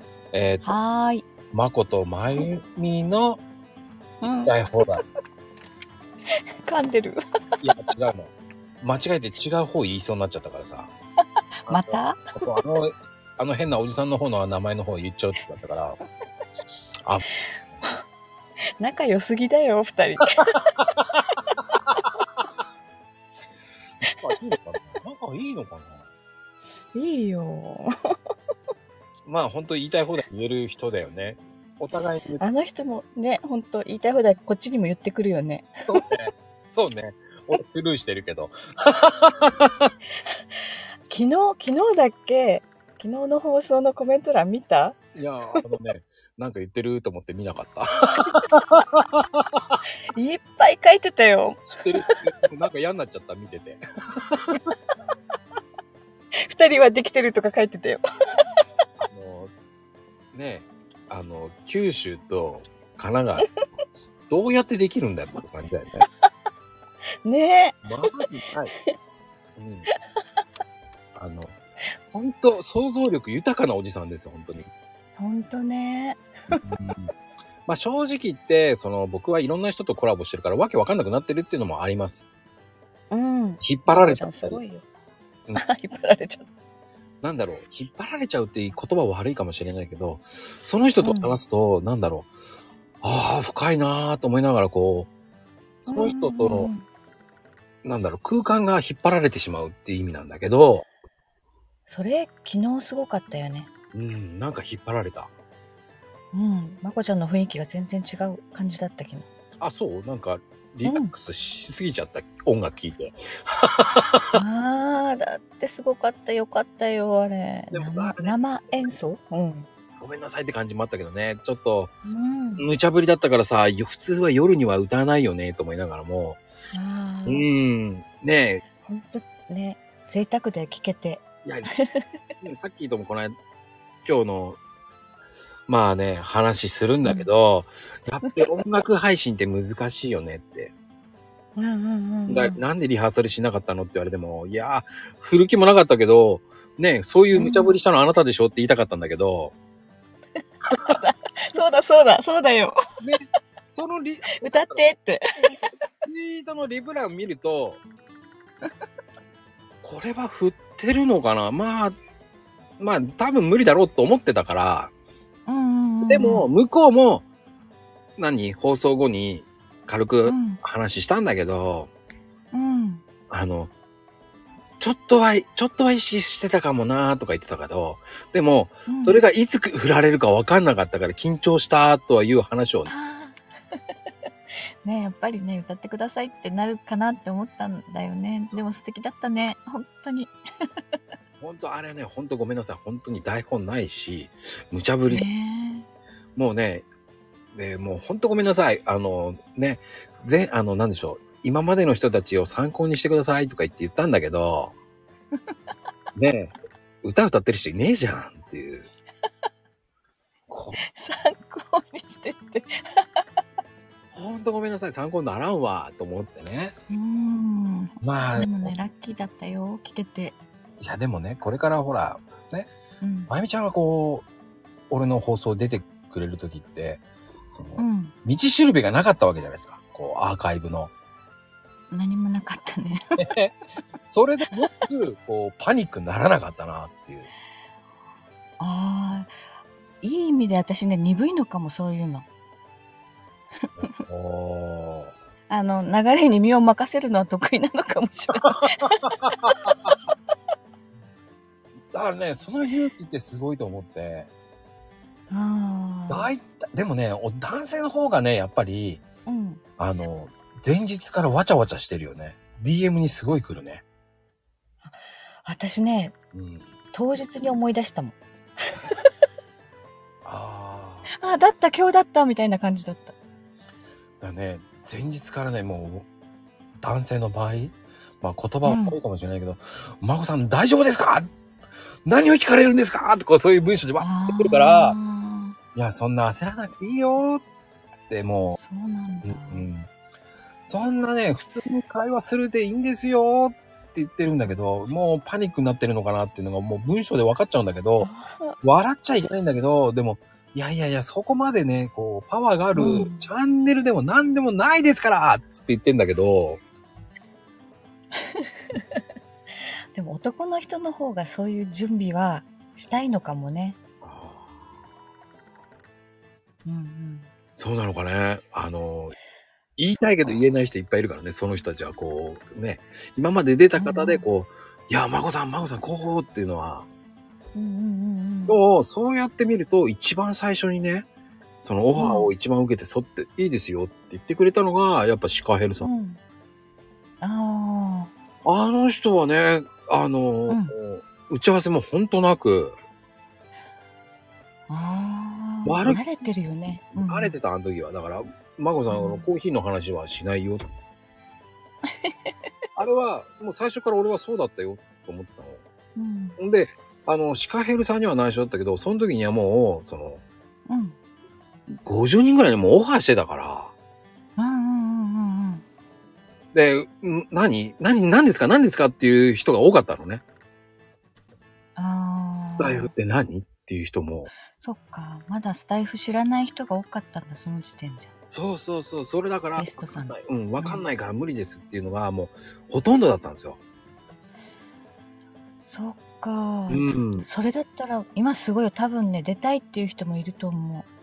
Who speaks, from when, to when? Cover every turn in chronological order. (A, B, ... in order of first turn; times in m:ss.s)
0:00.3-0:00.7 A
0:00.6-0:01.2 B
0:01.5-0:03.4 A
0:04.2-0:04.5 B
0:04.5-0:05.0 A
0:06.4-0:07.2 B
0:07.6-0:10.9 A
0:11.6-0:12.4 B
0:11.7-0:16.0 A
0:18.8-0:20.6 B
0:24.2-0:26.1 A
0:26.9-0:27.8 B
0:29.3-0:32.4 A
0:32.4-0:35.7 B
0:35.9-0:39.9 A
0:41.1-0:45.0 B
0:45.2-0:49.8 A
0:50.1-0:52.2 B
0:51.7-0:54.6 A
0:56.4-0:58.0 B
0:59.0-0:59.5 A
1:00.3-1:03.5 A
1:04.3-1:06.1 A
1:07.2-1:07.8 B
1:07.8-1:08.7 A
1:09.6-1:09.9 A
1:11.2-1:11.6 A
1:12.1-1:14.7 A
1:15.2-1:16.6 B
1:16.5-1:17.1 A
1:17.7-1:22.3 A
1:23.1-1:24.9 B
1:23.6-1:24.6 A
1:25.6-1:26.5 B
1:27.2-1:32.3 A
1:31.0-1:31.4 B
1:33.0-1:35.1 A
1:35.8-1:36.7 A
1:35.9-1:36.9 B
1:37.8-1:40.9 A
1:41.9-1:43.7 B
1:43.9-1:45.3 A
1:46.3-1:49.3 B
1:49.6-1:54.4 A
1:50.8-1:51.1 B
1:54.3-1:59.7 B
1:57.7-1:58.4 A
2:00.0-2:01.9 A
2:02.0-2:02.7 B
2:02.6-2:06.4 A
2:06.7-2:07.5 B
2:07.3-2:08.6 A
2:08.8-2:12.1 B
2:11.4-2:11.7 A
2:12.4-2:13.4 A
2:14.0-2:14.6 A
2:15.7-2:20.7 A
2:21.6-2:22.6 B
2:22.3-2:29.6 A
2:27.3-2:27.8 B
2:30.7-2:32.8 B
2:33.0-2:34.9 A
2:34.4-2:35.6 B
2:35.9-2:37.8 A
2:39.8-2:42.0 A
2:42.8-2:44.9 A
2:45.5-2:46.5 B
2:46.1-2:47.2 A
2:48.2-2:51.9 A
2:50.2-2:50.6 B
2:52.5-2:53.0 B
2:53.3-2:53.7 A
2:54.8-3:02.9 A
2:58.9-2:59.2 B
3:02.9-3:03.4 B
3:04.8-3:10.3 B
3:11.4-3:15.3 A
3:15.1-3:15.9 B
3:16.4-3:16.9 A
3:17.5-3:24.7 A
3:26.2-3:28.9 A
3:30.5-3:30.8 A
3:30.9-3:32.8 B
3:34.1-3:36.8 A
3:36.9-3:40.4 B
3:38.0-3:38.7 A
3:40.8-3:42.7 A
3:43.0-3:43.3 B
3:43.3-3:44.3 A
3:44.9-3:50.9 A
3:47.8-3:48.1 B
3:51.9-3:53.0 B
3:53.2-3:53.6 A
3:54.1-3:57.3 A
3:58.6-3:59.4 B
4:00.0-4:02.3 B
4:03.8-4:05.2 A
4:05.5-4:09.7 B
4:09.2-4:10.0 A
4:11.9-4:14.3 A
4:15.3-4:16.3 B
4:16.1-4:19.0 A
4:19.3-4:19.6 B
4:19.8-4:23.8 A
4:24.8-4:26.2 B
4:26.3-4:26.7 A
4:26.9-4:28.2 B
4:30.2-4:31.1 A
4:31.1-4:33.2 B
4:34.2-4:36.1 A
4:36.8-4:41.3 A
4:38.6-4:39.0 B
4:42.0-4:45.0 A
4:44.0-4:45.6 B
4:45.8-4:47.4 A
4:48.1-4:48.6 A
4:48.5-4:49.7 B
4:49.2-4:49.9 A
4:50.6-4:58.1 A
4:58.0-4:58.6 B
4:58.6-5:06.6 A
5:02.8-5:03.3 B
5:08.3-5:09.0 B
5:09.9-5:13.8 B
5:14.0-5:14.7 A
5:16.6-5:17.3 B
5:17.6-5:19.2 A
5:19.8-5:26.9 A
5:23.8-5:24.2 B
5:27.6-5:28.6 B
5:28.5-5:31.1 A
5:31.6-5:35.9 A
5:32.0-5:32.3 B
5:35.8-5:36.2 B
5:37.2-5:38.1 B
5:38.4-5:42.8 A
5:44.7-5:47.4 B
5:45.7-5:46.0 A
5:47.0-5:50.6 A
5:48.9-5:49.3 B
5:52.0-5:52.3 B
5:52.8-5:55.6 A
5:56.0-5:56.4 B
5:56.4-6:00.2 A
6:00.7-6:01.0 B
6:01.8-6:03.7 A
6:04.4-6:05.6 B
6:06.5-6:10.2 A
6:11.8-6:12.9 B
6:12.6-6:14.3 A
6:14.6-6:18.1 B
6:18.3-6:23.6 A
6:19.6-6:20.8 B
6:25.6-6:30.9 B
6:26.7-6:27.3 A